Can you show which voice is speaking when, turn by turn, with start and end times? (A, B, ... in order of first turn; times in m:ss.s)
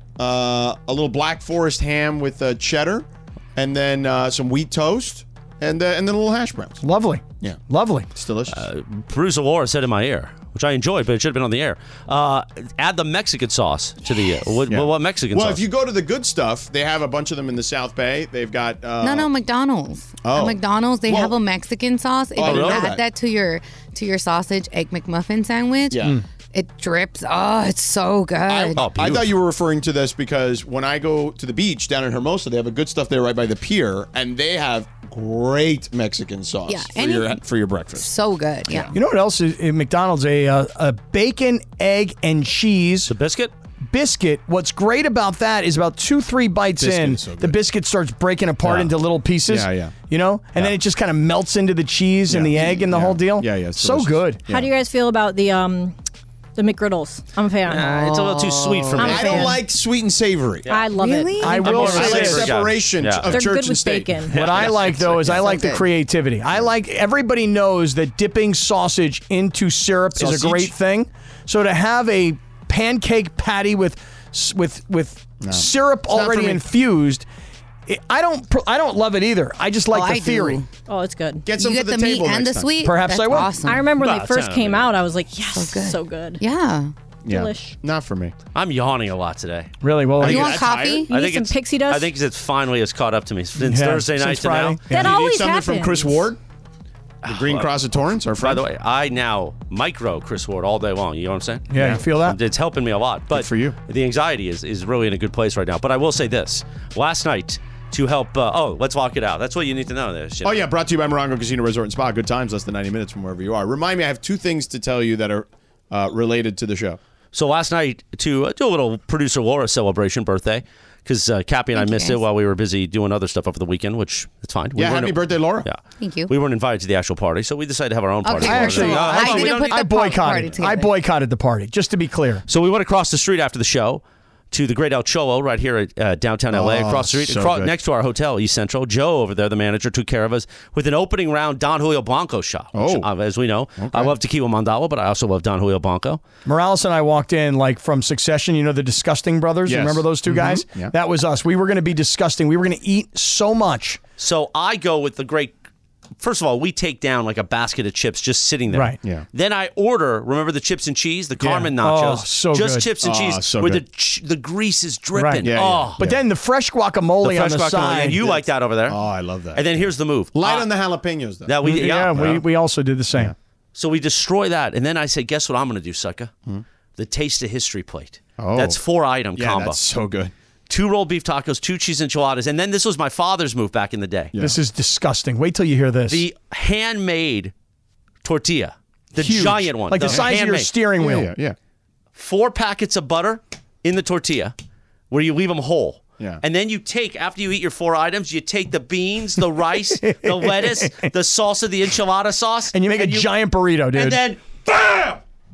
0:00.2-0:06.8 A
0:06.8-0:08.1 B
0:08.1-0:08.6 A
0:08.5-0:15.6 C
0:14.7-0:19.3 A
0:19.0-0:28.8 D
0:20.2-0:21.3 A
0:22.4-0:23.0 A
0:22.4-0:22.9 C
0:25.9-0:26.2 A
0:28.5-0:38.1 A
0:28.8-0:29.3 C
0:36.7-0:37.4 D
0:38.0-0:38.9 D
0:38.7-0:38.9 A
0:38.9-0:43.1 B
0:43.1-0:43.5 C
0:43.8-0:54.4 B
0:46.8-0:47.6 A
0:48.6-0:48.9 A
0:49.5-0:50.0 A
0:52.3-0:54.7 A
0:54.5-0:56.0 E
0:56.6-0:58.0 E
0:57.7-0:59.6 C
0:57.8-0:59.5 D
0:59.0-0:59.6 E
0:59.0-1:00.7 A
1:00.7-1:01.7 E
1:01.0-1:01.6 D
1:01.4-1:02.5 B
1:01.6-1:03.4 C
1:01.6-1:04.8 A
1:03.3-1:04.4 E
1:04.3-1:05.4 C
1:04.3-1:17.2 B
1:05.3-1:05.8 D
1:10.2-1:10.7 A
1:15.4-1:16.6 A
1:17.9-1:20.6 B
1:19.9-1:20.7 D
1:20.9-1:21.5 E
1:21.5-1:22.7 A
1:21.6-1:23.8 D
1:22.8-1:23.6 B
1:23.6-1:26.4 E
1:24.0-1:24.9 C
1:25.5-1:26.9 D
1:27.3-1:28.3 A
1:27.3-1:27.8 E
1:28.5-1:29.7 C
1:29.8-1:30.6 B
1:30.2-1:31.1 D
1:30.2-1:31.1 A
1:31.1-1:32.1 E
1:31.1-1:34.8 C
1:33.6-1:35.1 B
1:34.9-1:36.2 E
1:34.9-1:36.4 A
1:37.2-1:37.8 C
1:37.3-1:38.6 A
1:38.3-1:50.6 C
1:41.7-1:42.4 B
1:43.3-1:43.8 A
1:50.4-1:57.0 A
1:57.3-2:09.8 C
2:01.8-2:02.2 D
2:04.8-2:05.7 A
2:06.0-2:06.3 D
2:08.2-2:10.9 D
2:08.4-2:12.4 B
2:12.5-2:26.2 C
2:16.5-2:17.7 A
2:22.7-2:23.1 A
2:23.8-2:24.2 A
2:26.5-2:34.0 B
2:29.6-2:30.9 A
2:34.2-2:35.5 C
2:36.2-2:46.0 C
2:38.7-2:39.0 B
2:41.4-2:41.7 A
2:41.8-2:42.9 B
2:43.0-2:43.8 A
2:45.2-2:48.2 B
2:45.4-2:46.2 A
2:47.2-2:49.0 C
2:48.2-2:52.4 A
2:49.6-2:50.7 C
2:51.5-2:52.4 C
2:51.6-2:53.3 B
2:53.8-2:56.3 C
2:57.0-2:59.8 C
2:58.4-2:58.8 A
2:59.4-3:00.3 A
3:00.7-3:04.3 C
3:04.4-3:06.2 B
3:06.1-3:07.5 C
3:08.2-3:10.7 C
3:09.2-3:11.3 B
3:11.0-3:11.6 A
3:12.2-3:14.5 C
3:15.1-3:23.3 C
3:20.0-3:21.1 B
3:22.7-3:24.2 B
3:23.9-3:25.2 C